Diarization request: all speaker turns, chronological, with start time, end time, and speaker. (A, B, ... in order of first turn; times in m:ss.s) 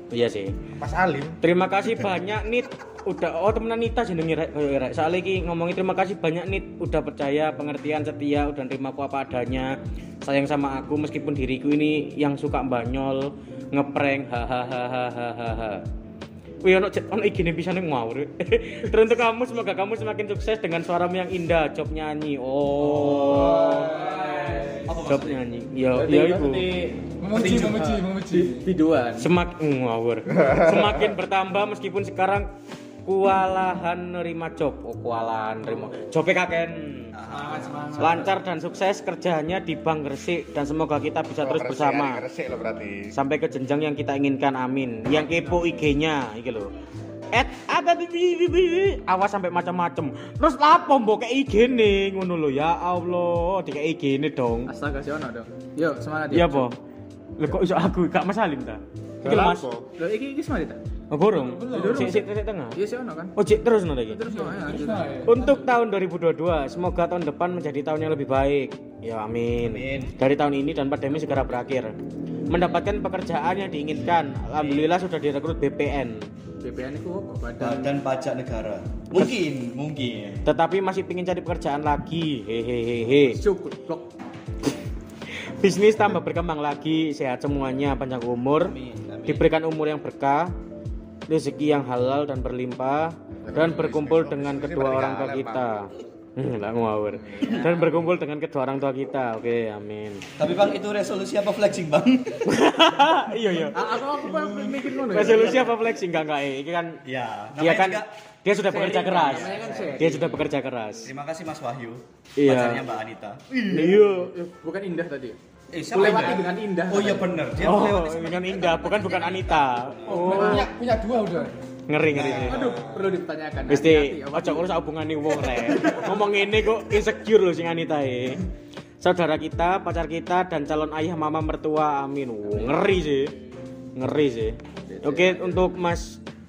0:00.1-0:00.5 A
0:00.8-0:01.4 B
0:01.4-0:15.8 A
0:16.6-0:26.7 A
0:22.8-0:24.0 C
0:23.2-0:25.0 D
0:24.9-0:25.4 C
0:25.9-0:29.3 E
0:27.2-0:28.7 D
0:27.4-0:27.8 C
0:29.2-0:32.5 A
0:30.3-0:31.2 B
0:33.0-0:37.1 A
0:37.1-0:38.3 C
0:37.3-0:38.3 D
0:38.0-0:42.2 A
0:41.4-0:43.1 B
0:43.1-0:46.7 A
0:47.3-0:54.7 A
0:54.7-0:56.7 E
0:56.3-0:56.8 A
0:57.4-0:59.7 A
0:59.2-0:59.9 B
1:00.0-1:00.8 E
1:01.1-1:02.8 A
1:01.4-1:02.2 D
1:01.6-1:03.3 E
1:03.4-1:04.2 A
1:04.1-1:05.1 E
1:04.3-1:05.7 D
1:05.2-1:11.9 A
1:09.6-1:10.2 C
1:12.5-1:16.3 A
1:14.4-1:14.9 C
1:16.6-1:18.0 E
1:17.6-1:20.4 C
1:20.4-1:23.4 A
1:23.3-1:24.1 E
1:25.5-1:28.8 A
1:28.6-1:29.5 C
1:29.3-1:30.5 A
1:31.3-1:40.2 A
1:33.4-1:35.7 B
1:37.3-1:37.8 E
1:37.4-1:37.9 C
1:40.4-1:42.5 C
1:42.4-1:43.8 A
1:43.7-1:45.7 E
1:43.9-1:45.7 C
1:45.1-1:47.0 A
1:47.0-1:48.1 C
1:47.6-1:51.1 A
1:48.7-1:50.4 E
1:49.2-1:50.0 C
1:51.0-1:54.0 C
1:52.4-1:52.9 A
1:53.7-1:55.4 E
1:53.7-1:54.3 A
1:55.7-2:00.4 C
1:55.9-1:57.3 E
1:56.0-1:56.3 D
1:57.6-2:00.7 A
2:00.1-2:01.6 D
2:00.1-2:00.7 E
2:01.9-2:02.7 A
2:02.1-2:03.0 C
2:02.4-2:04.7 E
2:03.7-2:08.5 A
2:09.0-2:13.3 A
2:14.0-2:16.2 A
2:14.9-2:15.7 E